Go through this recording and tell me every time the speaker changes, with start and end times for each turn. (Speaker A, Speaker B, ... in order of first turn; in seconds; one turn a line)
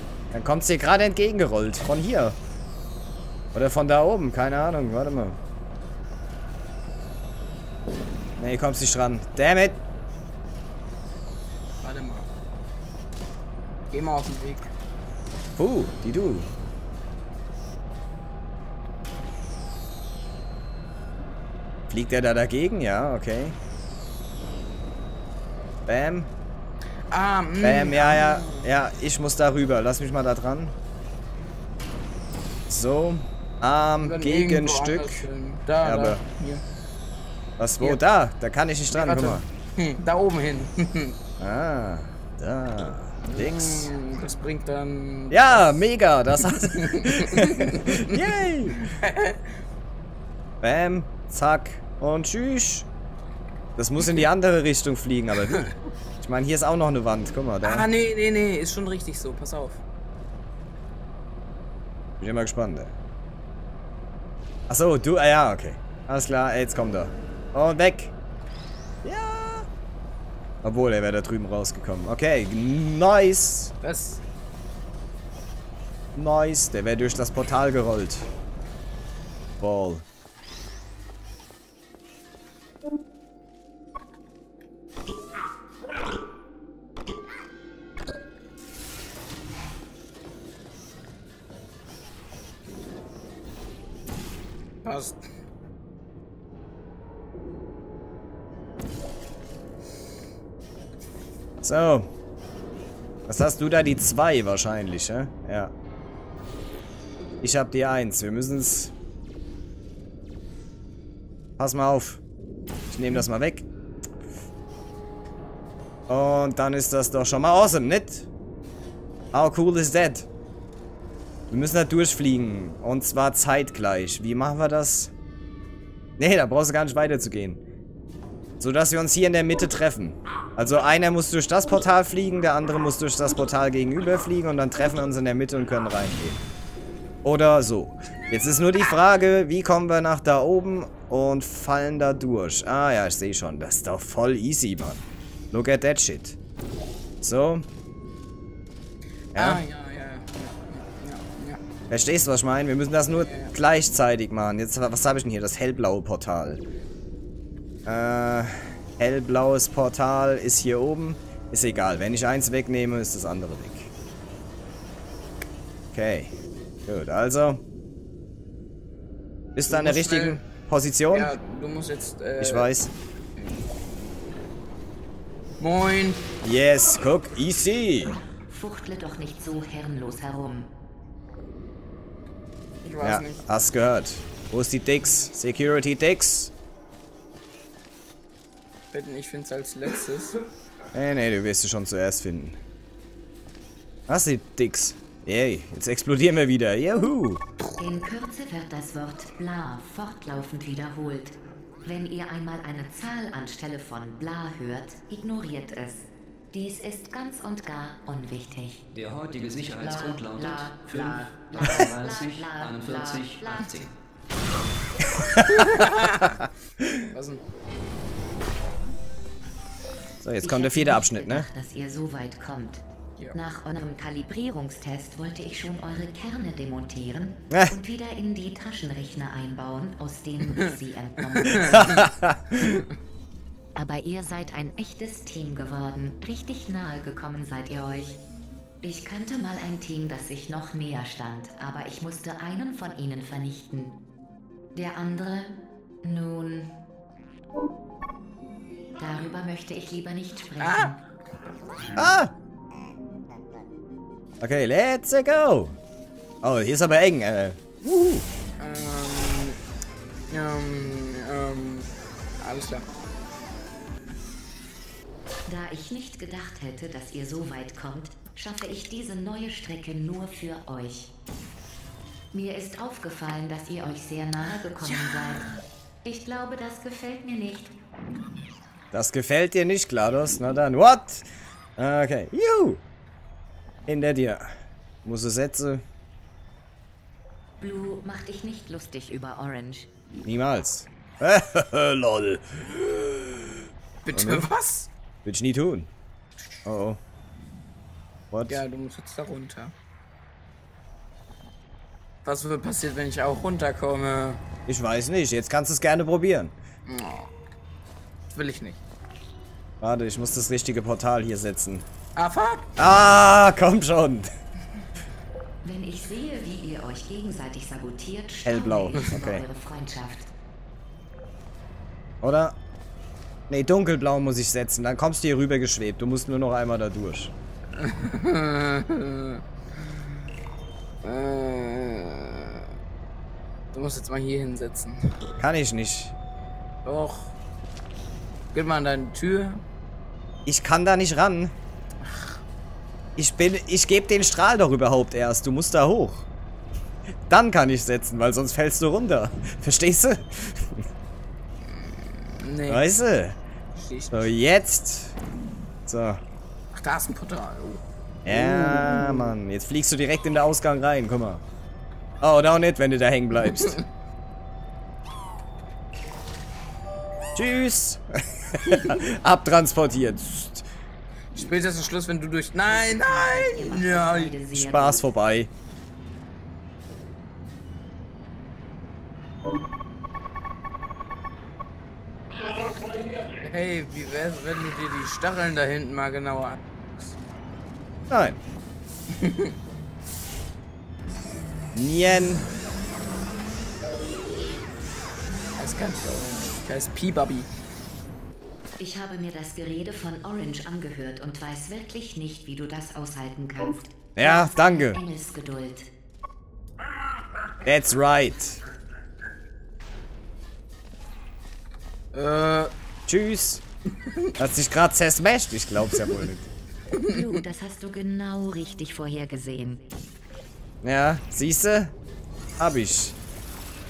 Speaker A: 0.3-2.4
Speaker A: 3.5-5.4
Speaker A: 8.4-9.8
Speaker B: 11.8-12.3
Speaker B: 13.9-14.7
Speaker A: 15.6-16.5
Speaker A: 21.9-23.6
Speaker A: 25.9-26.3
Speaker B: 27.1-28.7
Speaker A: 27.6-30.8
Speaker A: 32.7-35.2
Speaker B: 34.0-36.6
Speaker A: 35.8-36.2
Speaker A: 37.6-39.5
Speaker B: 38.9-41.1
Speaker A: 41.4-43.9
Speaker B: 43.2-45.7
Speaker A: 45.3-48.9
Speaker B: 46.7-49.5
Speaker A: 50.6-52.9
Speaker A: 53.8-55.7
Speaker B: 54.0-54.2
Speaker B: 55.4-55.7
Speaker A: 56.2-57.9
Speaker B: 57.6-59.8
Speaker A: 62.2-63.0
Speaker A: 64.7-68.1
Speaker A: 69.0-69.7
Speaker A: 70.6-73.7
Speaker B: 73.8-74.2
Speaker A: 76.1-78.3
Speaker A: 79.6-80.0
Speaker B: 94.8-95.2
Speaker A: 101.6-102.1
Speaker A: 103.3-105.7
Speaker A: 107.4-108.9
Speaker A: 111.6-112.2
Speaker A: 112.9-113.7
Speaker A: 116.1-118.3
Speaker A: 119.3-120.3
Speaker A: 121.5-125.1
Speaker A: 126.2-127.6
Speaker A: 128.6-136.4
Speaker A: 137.2-146.4
Speaker A: 147.2-147.7
Speaker A: 149.3-149.6
Speaker B: 149.3-151.6
Speaker A: 151.9-156.6
Speaker B: 153.1-153.5
Speaker A: 157.8-163.9
Speaker A: 165.9-166.3
Speaker A: 166.8-167.6
Speaker A: 169.6-171.3
Speaker B: 169.7-170.4
Speaker B: 171.1-172.7
Speaker A: 172.4-172.9
Speaker B: 173.4-173.7
Speaker B: 175.6-176.2
Speaker A: 176.4-178.2
Speaker C: 178.4-180.7
Speaker B: 182.8-183.5
Speaker A: 183.0-186.5
Speaker B: 188.9-190.4
Speaker A: 190.9-192.6
Speaker A: 194.1-197.4
Speaker C: 197.8-208.9
Speaker D: 208.9-213.9
Speaker C: 209.8-213.8
Speaker A: 215.1-215.7
Speaker B: 215.5-216.4
Speaker A: 216.4-217.0
Speaker B: 217.1-217.4
Speaker A: 220.2-221.5
Speaker C: 220.4-222.8
Speaker C: 223.3-232.1
Speaker A: 227.5-227.8
Speaker B: 231.4-232.0
Speaker A: 231.8-232.6
Speaker C: 233.7-238.2
Speaker C: 238.8-243.9
Speaker C: 244.7-246.7
Speaker C: 249.0-251.0
Speaker B: 250.6-251.0
Speaker A: 251.9-252.3
Speaker A: 254.4-255.8
Speaker A: 256.4-258.3
Speaker B: 258.6-259.6
Speaker B: 260.3-262.9
Speaker C: 265.4-271.1
Speaker C: 272.3-275.5
Speaker B: 274.9-275.4
Speaker C: 276.0-277.7
Speaker A: 278.9-281.2
Speaker A: 281.8-282.8
Speaker A: 283.9-284.5
Speaker A: 285.0-285.8
Speaker C: 287.6-289.9
Speaker A: 290.2-293.6
Speaker B: 294.0-294.9
Speaker A: 294.1-294.5
Speaker A: 295.2-295.9
Speaker A: 296.6-297.0
Speaker A: 298.3-298.6
Speaker B: 298.5-299.7
Speaker B: 302.2-304.4
Speaker A: 304.7-306.5
Speaker B: 306.9-307.3
Speaker B: 308.3-308.8
Speaker A: 309.8-311.9
Speaker B: 312.1-312.7
Speaker A: 312.8-314.3
Speaker C: 315.6-320.3
Speaker A: 318.4-319.4
Speaker A: 322.2-322.6
Speaker A: 323.5-327.3
Speaker B: 327.8-329.4
Speaker B: 331.0-332.7
Speaker B: 333.7-335.0
Speaker A: 335.4-336.1
Speaker B: 336.8-337.3
Speaker B: 338.5-339.6
Speaker A: 340.4-341.5
Speaker B: 342.0-342.4
Speaker A: 343.2-346.3
Speaker A: 347.3-350.8
Speaker B: 351.6-352.9
Speaker A: 352.7-353.4
Speaker B: 353.8-354.3
Speaker A: 354.1-355.1
Speaker A: 355.9-356.2
Speaker B: 356.7-359.3
Speaker A: 358.2-361.4
Speaker A: 362.2-363.8
Speaker B: 363.4-363.8
Speaker A: 367.3-370.6
Speaker B: 371.3-374.4
Speaker C: 372.7-375.1
Speaker A: 374.5-375.5
Speaker B: 383.2-386.7
Speaker A: 388.1-388.4
Speaker B: 389.1-389.5
Speaker A: 391.7-392.5
Speaker B: 395.6-397.5
Speaker C: 398.8-405.9
Speaker A: 404.1-405.0
Speaker A: 407.6-408.6
Speaker B: 412.1-412.7
Speaker A: 413.1-413.6
Speaker B: 414.0-414.3
Speaker A: 414.4-416.5
Speaker B: 416.9-417.2
Speaker C: 417.1-419.9
Speaker A: 420.8-421.9
Speaker A: 422.6-423.1